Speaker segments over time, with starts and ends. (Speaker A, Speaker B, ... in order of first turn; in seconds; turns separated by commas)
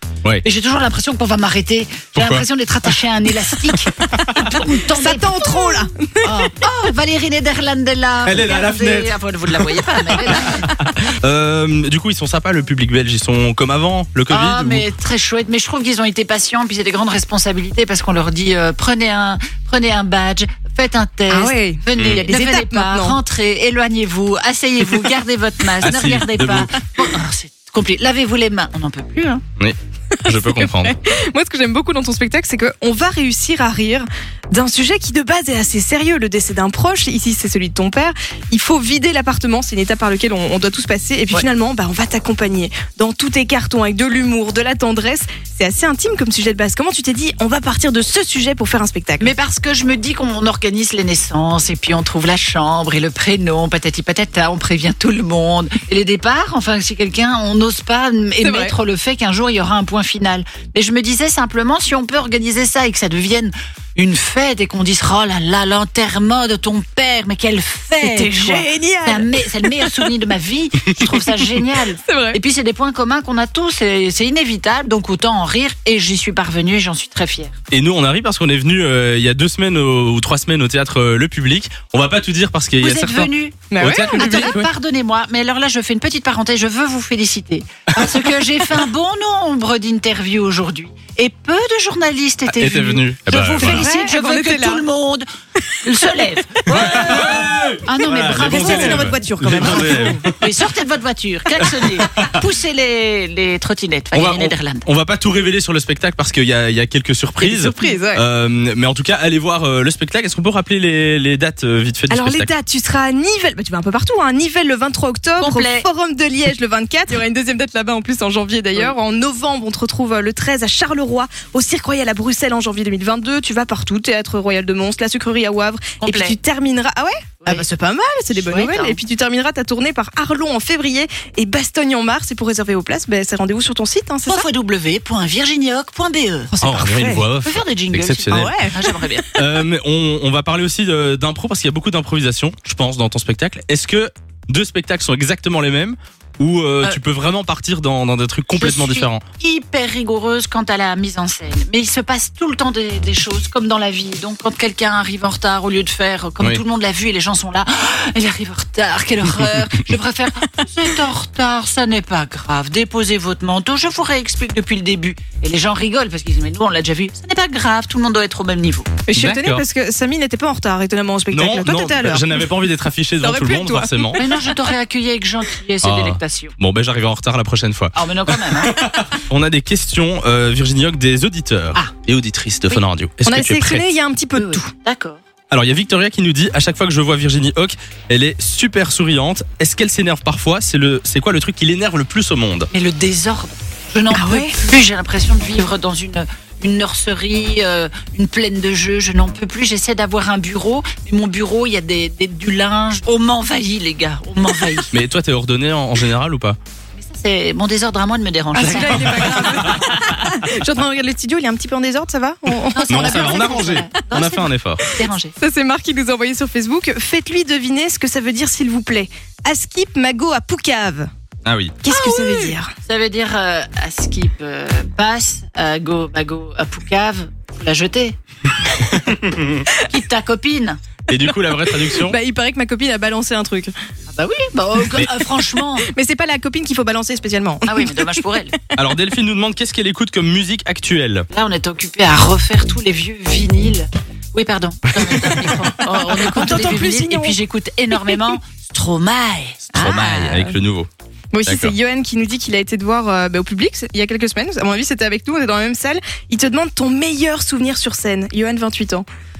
Speaker A: 0.4-10.7, Speaker B: 2.1-2.4, Speaker B: 4.2-4.6, Speaker C: 4.2-6.5, Speaker B: 8.2-14.8, Speaker A: 14.3-29.4, Speaker C: 21.3-23.2, Speaker B: 22.0-22.2, Speaker B: 25.8-26.7, Speaker B: 29.6-30.9, Speaker C: 30.2-49.3, Speaker A: 49.2-77.5, Speaker C: 58.4-58.7, Speaker C: 68.0-70.1, Speaker C: 71.0-72.4, Speaker B: 77.7-84.6, Speaker A: 82.8-95.2, Speaker C: 83.7-84.6, Speaker B: 92.5-93.8, Speaker C: 93.6-94.8, Speaker A: 95.8-104.8, Speaker B: 96.7-100.3, Speaker C: 96.9-97.4, Speaker C: 98.3-100.2, Speaker B: 101.6-102.3, Speaker B: 104.1-112.5, Speaker C: 107.4-108.2, Speaker C: 112.1-134.4, Speaker A: 115.4-115.8, Speaker A: 126.0-126.3, Speaker A: 128.3-129.0, Speaker A: 134.2-136.5, Speaker C: 136.5-137.2, Speaker B: 136.6-138.6, Speaker A: 137.4-139.3, Speaker C: 138.3-139.1, Speaker B: 139.3-149.2, Speaker A: 148.5-168.9, Speaker C: 169.1-172.5, Speaker B: 169.1-169.6, Speaker B: 171.3-174.2, Speaker C: 173.2-174.6, Speaker A: 174.2-176.5, Speaker B: 175.8-183.8, Speaker A: 177.9-178.8, Speaker C: 183.2-184.7, Speaker A: 184.3-185.2, Speaker B: 185.5-192.7, Speaker A: 192.7-204.9, Speaker C: 194.1-194.5, Speaker B: 204.9-206.6, Speaker A: 207.0-209.8, Speaker C: 208.5-214.2, Speaker B: 208.6-209.8, Speaker A: 212.7-215.3, Speaker B: 212.9-214.8, Speaker C: 214.9-221.1, Speaker B: 221.4-221.8, Speaker C: 221.8-222.7, Speaker A: 221.9-228.2, Speaker B: 229.0-229.6, Speaker A: 229.8-230.8, Speaker B: 231.1-232.2, Speaker C: 231.2-233.7, Speaker A: 234.1-235.9, Speaker C: 235.8-238.2, Speaker A: 237.6-238.5, Speaker B: 238.8-241.3, Speaker A: 241.3-250.0, Speaker C: 245.8-247.3, Speaker C: 247.9-248.2, Speaker C: 249.7-250.6, Speaker B: 249.7-250.9, Speaker C: 251.3-259.1, Speaker B: 251.4-251.7